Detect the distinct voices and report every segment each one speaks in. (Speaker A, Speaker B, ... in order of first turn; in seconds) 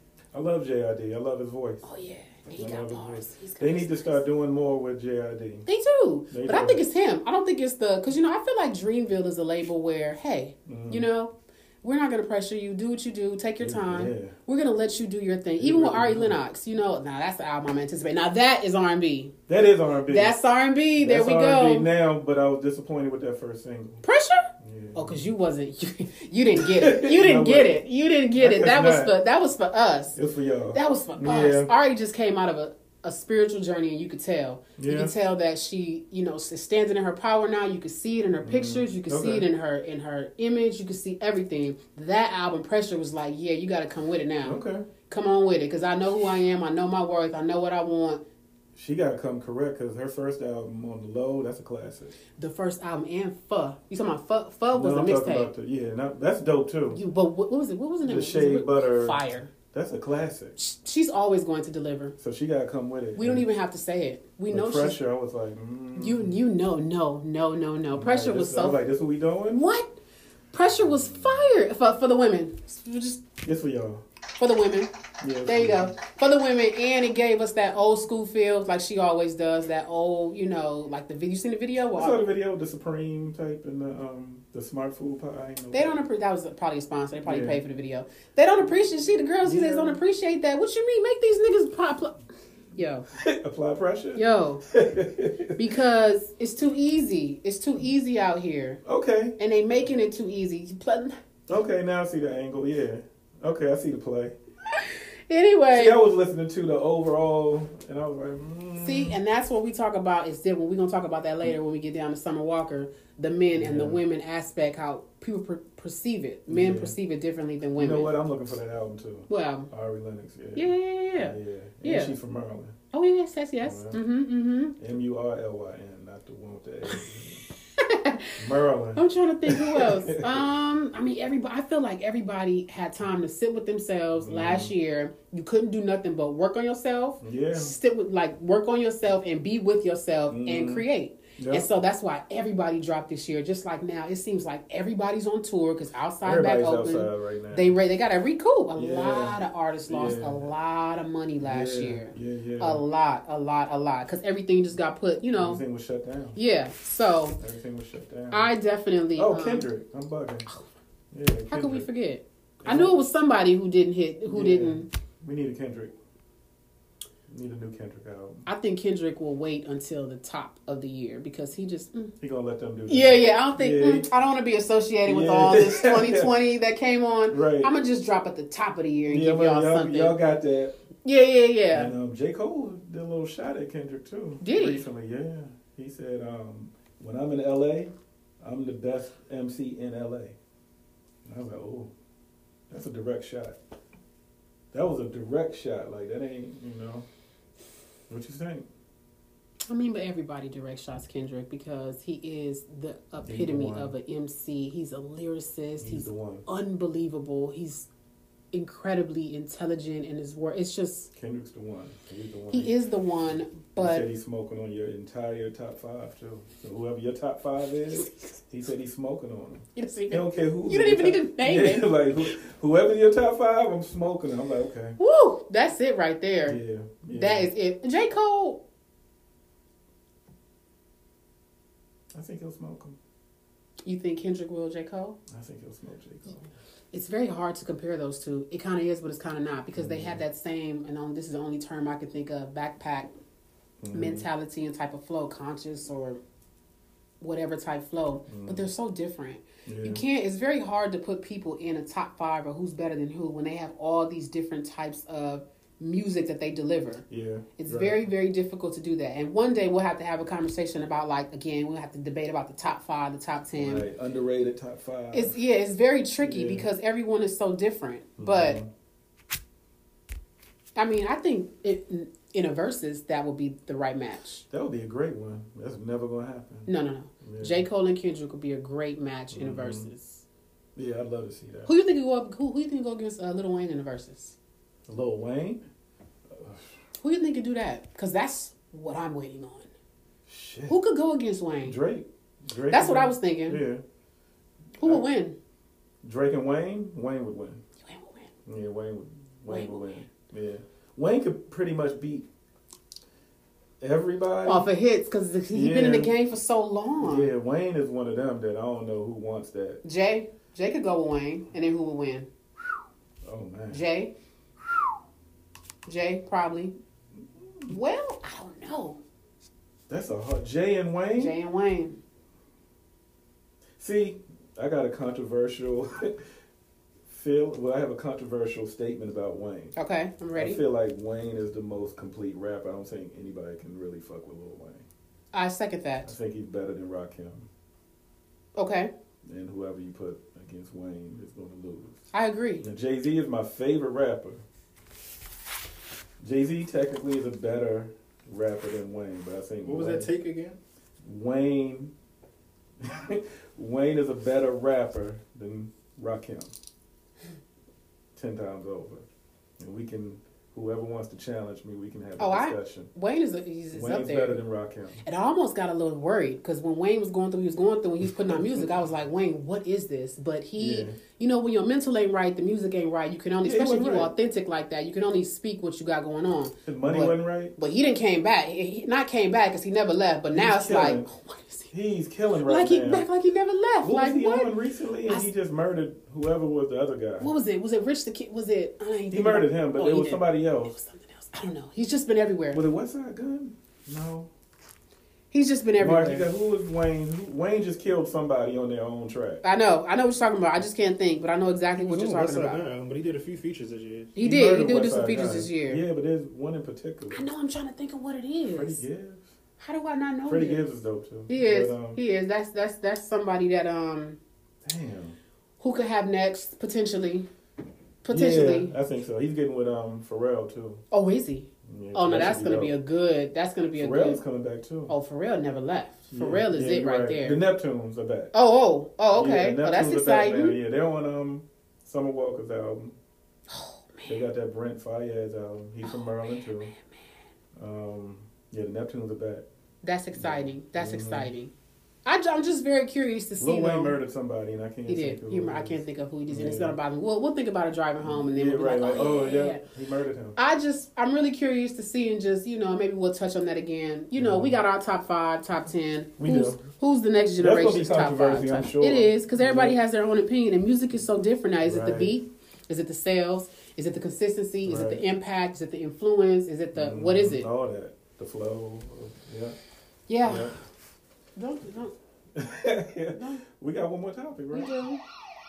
Speaker A: 0.3-1.9, 2.5-5.7, 6.3-6.8, 10.7-11.1, 13.6-14.3, 15.6-16.4, 19.5-20.4, 21.0-24.0, 24.6-25.3, 26.6-27.8, 28.3-29.1, 30.1-31.7, 34.8-35.1, 38.4-39.5, 44.4-44.9, 48.7-52.1, 54.7-57.0, 58.0-60.6, 62.2-63.5, 64.5-66.4, 67.9-69.6, 70.8-71.5, 73.4-74.0, 75.2-75.9, 81.9-86.0, 87.2-87.6, 89.4-90.0, 93.1-95.7, 98.8-99.4, 101.5-104.3, 105.7-109.2, 113.5-114.0, 116.5-116.9, 117.8-122.8, 123.6-124.0, 124.8-127.4, 128.4-130.4, 134.2-134.7, 137.2-137.7, 140.3-141.7, 146.2-147.8, 148.8-150.5, 151.4-152.8, 155.3-156.3, 157.4-158.5, 159.2-160.4, 161.1-161.9, 162.6-163.0, 164.3-165.9, 167.3-168.4, 172.2-174.1, 175.1-176.3, 177.3-177.7, 179.1-180.8, 181.7-190.4, 191.2-191.9, 192.7-193.6, 194.7-197.1, 198.1-198.7, 203.2-203.9, 205.8-206.4, 211.1-212.7, 213.8-225.0, 226.4-227.5, 232.1-233.0, 235.3-236.5, 239.7-240.2, 243.8-244.2, 248.3-248.7, 249.7-250.0, 257.1-258.0, 263.6-265.4, 266.2-266.7, 268.2-268.7, 274.5-276.7, 277.2-277.6, 279.3-279.9, 280.8-281.7, 284.9-285.6, 286.3-286.6, 290.2-290.8, 291.6-293.8, 294.8-295.1, 296.0-297.6, 298.4-302.3, 303.8-304.7, 305.5-306.1, 307.0-309.8, 313.2-313.8, 319.9-321.3, 323.8-326.2, 327.1-329.7, 330.3-334.9, 336.0-337.5, 339.2-342.1, 342.6-344.4, 346.2-350.1, 351.0-351.9, 352.8-356.5, 358.1-359.1, 359.6-362.9, 363.7-365.0, 368.0-368.7, 370.6-371.0, 373.4-374.1, 376.6-377.5, 380.3-381.1, 381.7-383.1, 383.8-387.3, 389.1-390.8, 392.5-394.3, 395.8-399.4, 404.2-407.2, 408.5-409.3, 410.3-412.0, 414.6-415.2, 418.1-420.8, 421.6-422.7, 423.8-424.9, 426.1-428.3, 429.1-432.9, 434.1-436.7, 437.6-439.4, 440.1-441.3, 443.4-446.8, 448.0-450.4, 454.1-454.6, 456.2-456.6, 457.4-459.8, 461.6-462.2, 464.6-465.0, 466.7-469.6, 470.2-470.6, 472.3-474.7
Speaker B: 1.8-4.2, 5.7-19.3, 20.1-21.9, 24.0-30.2, 30.7-48.2, 52.4-55.5, 56.9-59.5, 60.6-62.1, 63.1-65.0, 65.9-68.8, 69.5-69.9, 70.5-73.2, 74.4-74.9, 75.4-82.2, 85.7-92.2, 92.7-93.1, 94.1-94.6, 95.5-98.8, 99.4-101.2, 104.8-106.0, 108.8-118.1, 119.3-119.7, 120.5-122.1, 122.9-124.8, 127.8-128.4, 128.9-155.6, 156.3-157.4, 158.3-159.7, 161.5-164.9, 168.4-172.1, 172.9-180.2, 181.0-181.9, 184.4-184.8, 199.7-207.9, 208.5-211.1, 212.5-214.1, 219.7-222.0, 225.0-226.6, 227.1-228.6, 233.8-235.2, 236.9-243.1, 243.9-246.2, 247.2-257.0, 257.6-263.9, 265.1-268.6, 270.8-274.4, 276.7-280.2, 281.6-284.4, 287.0-289.7, 290.7-291.8, 292.7-293.6, 294.8-295.4, 297.8-298.3, 299.5-300.1, 304.4-307.3, 309.8-312.3, 313.7-314.1, 315.9-316.8, 317.7-319.0, 321.2-322.0, 329.8-330.6, 335.3-336.1, 338.6-338.9, 342.1-342.6, 362.2-364.4, 365.0-381.7, 382.4-384.5, 387.2-392.6, 395.3-396.3, 399.4-402.6, 404.1-405.8, 407.1-408.8, 409.6-410.6, 411.3-414.2, 415.6-417.3, 418.0-418.7, 420.9-424.2, 424.9-427.4, 428.3-430.6, 433.5-434.2, 435.9-436.9, 439.8-441.5, 442.0-443.9, 444.9-449.6, 450.4-467.5, 470.1-470.5, 471.4-471.9, 473.1-473.4, 474.5-475.0
Speaker C: 349.6-350.6, 401.8-404.1